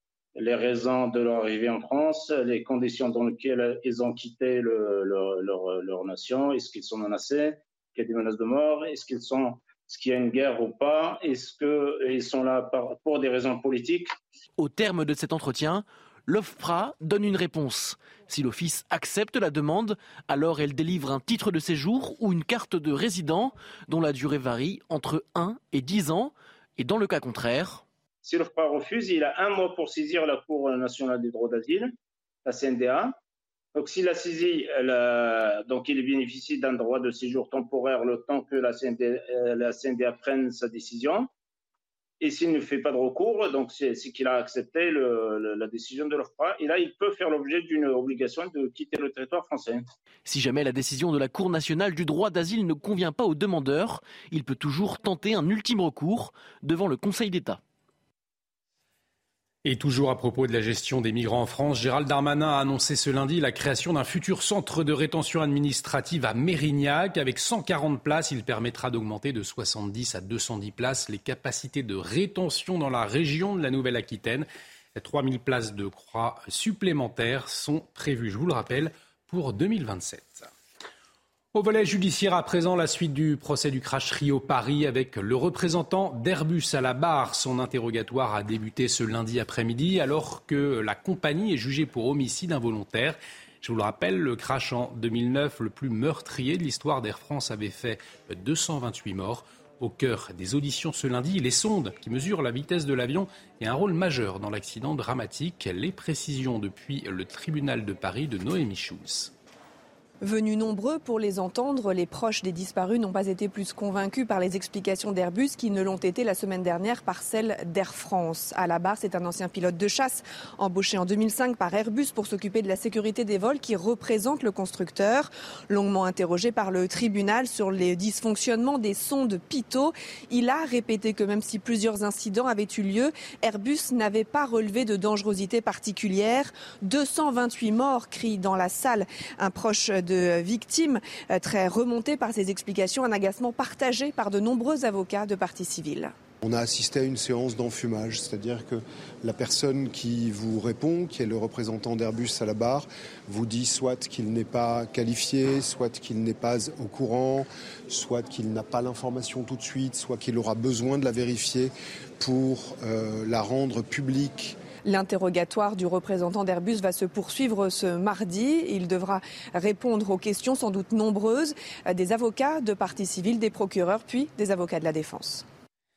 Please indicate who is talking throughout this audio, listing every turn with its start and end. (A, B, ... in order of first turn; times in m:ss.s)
0:00.4-0:14.1 A
0:14.6-0:27.8 B
0:28.2-0:31.9 A
0:32.5-0:33.2 A
0:33.8-0:41.3 A
0:42.2-0:49.8 A
0:50.2-0:57.6 B
0:59.6-1:20.5 C
1:21.5-1:49.3 C
1:50.2-2:26.1 D
2:26.4-2:44.6 E
2:44.8-2:55.5 D